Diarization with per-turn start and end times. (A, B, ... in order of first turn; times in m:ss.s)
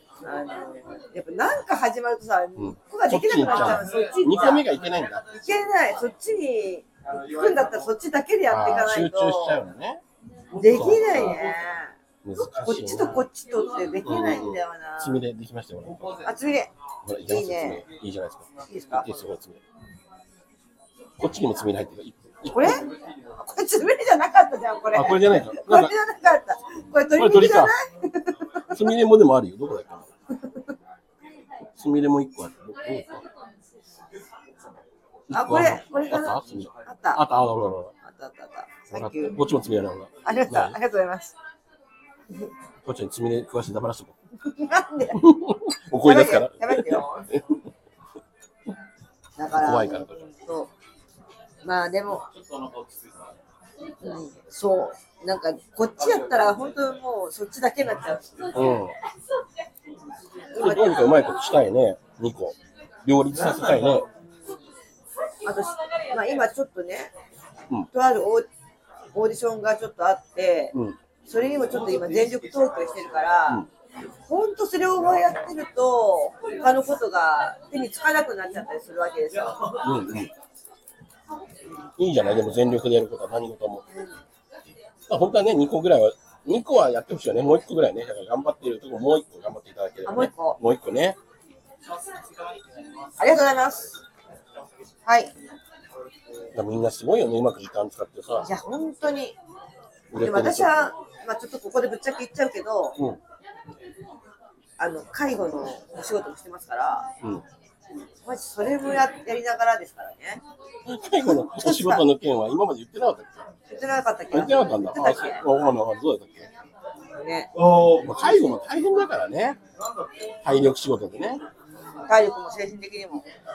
0:00.2-0:04.7 A
0:02.6-0:05.3 B
0:05.3-0:09.6 A
0:08.5-0:10.0 B
0:10.6-0:15.2 A
0:10.6-0:11.4 B
0:12.2-0:13.2 B
0:14.0-0:16.2 B
0:16.2-0:17.8 A
0:17.0-0:19.6 B
0:18.7-0:19.2 A
0:21.2-0:22.9 B
0:22.5-0:28.8 A
0:24.9-0:25.9 B
0:27.0-0:27.7 B
0:28.7-0:30.1 B
0:31.7-0:33.2 B
0:35.3-0:37.9 B
0:35.3-0:37.2 A
0:38.0-0:39.4 A
0:38.9-0:40.8 B
0:40.2-0:41.3 A
0:42.8-0:44.1 B
0:44.4-0:45.2 A
0:45.1-0:47.6 B
0:46.0-0:47.1 A
0:49.4-0:50.7 A
0:49.5-0:50.2 B
0:51.6-0:52.3 A
0:54.0-0:58.7 A
0:58.5-0:58.9 B
1:00.5-1:01.3 A
1:00.6-1:04.1 B
1:05.4-1:07.1 A
1:07.9-1:08.5 A
1:09.1-1:13.6 A
1:10.7-1:11.0 B
1:14.3-1:19.8 A
1:19.7-1:20.3 B
1:22.0-1:23.8 B
1:25.1-1:31.2 B
1:30.0-1:30.6 A
1:33.2-1:34.0 A
1:35.0-1:35.3 A
1:36.5-1:38.5 B
1:38.4-1:39.4 A
1:40.1-1:40.9 B
1:40.1-1:43.0 A
1:44.8-1:47.1 A
1:48.2-1:50.4 A
1:50.8-1:53.5 B
1:51.2-1:52.0 A
1:53.7-1:55.4 A
1:54.3-1:56.5 B
1:57.2-1:57.5 A
1:57.9-1:59.6 B
2:00.4-2:01.4 B
2:02.0-2:03.2 A